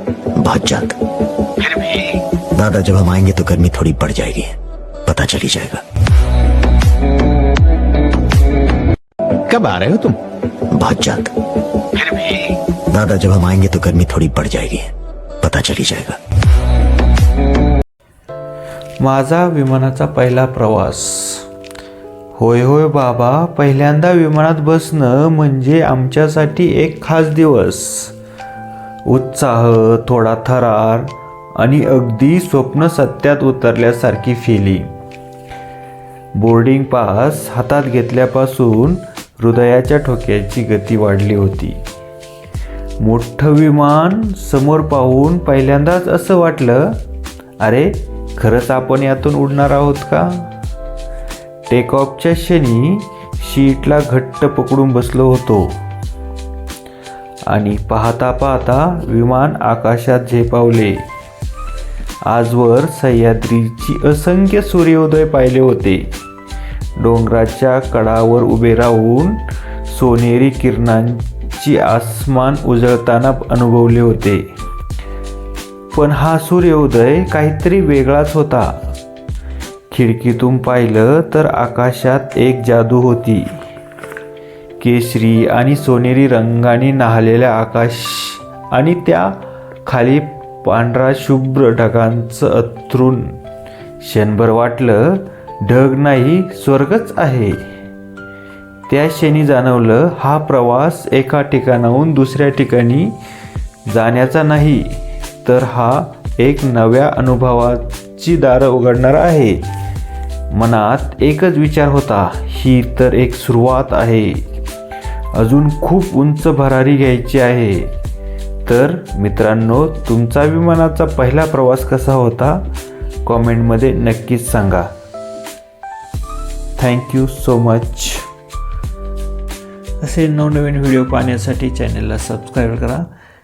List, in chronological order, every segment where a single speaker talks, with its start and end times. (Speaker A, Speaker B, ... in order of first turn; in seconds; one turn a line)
Speaker A: 0.3-0.9
Speaker B: 1.6-2.2
Speaker A: 2.5-4.5
Speaker A: 5.0-5.8
Speaker B: 9.5-10.2
Speaker A: 10.7-11.3
Speaker B: 11.9-12.5
Speaker A: 12.9-14.9
Speaker A: 15.4-16.2
Speaker C: 19.0-21.5
Speaker C: 22.4-28.1
Speaker C: 29.1-34.9
Speaker C: 36.3-41.8
Speaker C: 43.0-47.0
Speaker C: 47.6-50.5
Speaker C: 51.7-55.7
Speaker C: 57.5-61.0
Speaker C: 62.3-66.1
Speaker C: 67.0-74.5
Speaker C: 75.9-78.9
Speaker C: 79.9-83.6
Speaker C: 84.8-93.4
Speaker C: 94.0-97.6
Speaker C: 98.9-103.2
Speaker C: 103.9-109.7
Speaker C: 110.5-114.4
Speaker C: 115.3-117.9
Speaker C: 118.7-122.7
Speaker C: 123.2-124.9
Speaker C: 126.8-128.3
Speaker C: 130.0-133.1